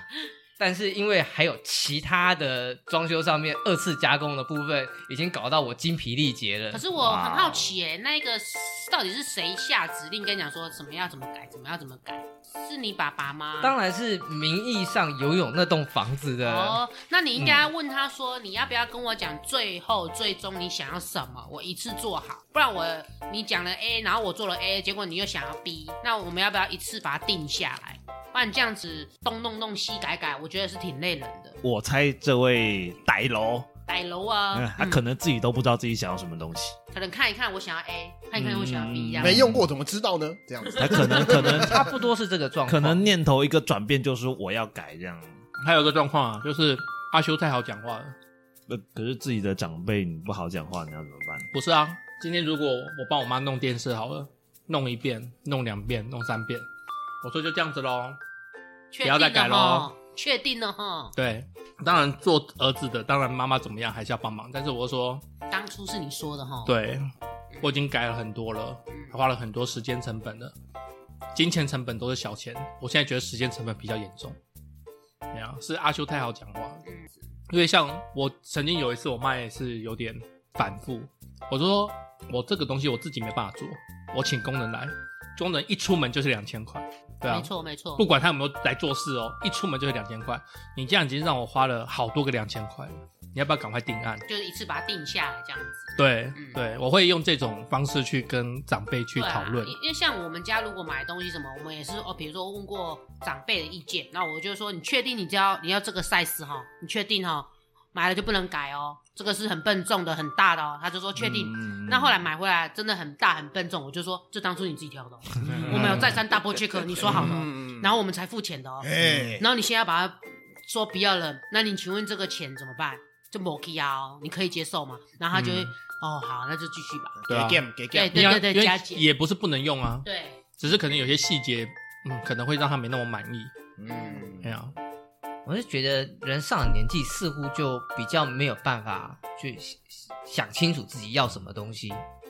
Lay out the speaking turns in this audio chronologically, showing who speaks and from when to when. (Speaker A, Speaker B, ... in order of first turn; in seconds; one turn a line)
Speaker A: 0.6-6.9
Speaker B: 6.7-13.8
Speaker C: 6.9-7.8
Speaker A: 13.6-16.8
Speaker B: 16.4-31.6
Speaker C: 17.4-17.7
Speaker C: 31.6-33.7
Speaker B: 33.9-35.0
Speaker C: 34.5-36.8
Speaker B: 36.9-39.4
Speaker C: 38.4-39.7
Speaker D: 39.2-41.9
Speaker C: 40.7-42.0
Speaker B: 40.9-41.2
Speaker A: 41.4-43.1
Speaker C: 42.7-45.4
Speaker E: 45.6-48.1
Speaker C: 48.7-51.5
Speaker E: 51.5-56.7
Speaker E: 57.2-58.2
Speaker B: 58.9-61.1
Speaker E: 59.0-59.9
Speaker E: 61.2-65.2
Speaker B: 65.5-66.8
Speaker E: 66.7-67.1
Speaker E: 67.6-70.5
Speaker E: 71.3-74.4
Speaker E: 75.3-76.8
Speaker B: 76.8-77.2
Speaker E: 77.5-94.2
Speaker B: 87.3-88.1
Speaker B: 94.3-96.6
Speaker E: 96.0-99.7
Speaker B: 99.2-127.2
Speaker D: 111.6-111.9
Speaker D: 115.5-116.3
Speaker E: 115.5-116.2
Speaker D: 116.9-117.9
Speaker D: 118.8-119.5
Speaker E: 125.3-125.7
Speaker D: 127.2-128.4
Speaker E: 127.3-130.1
Speaker B: 127.9-129.1
Speaker B: 130.0-130.4
Speaker E: 130.6-133.5
Speaker D: 133.8-134.6
Speaker B: 133.9-134.4
Speaker E: 134.4-134.7
Speaker A: 135.5-142.0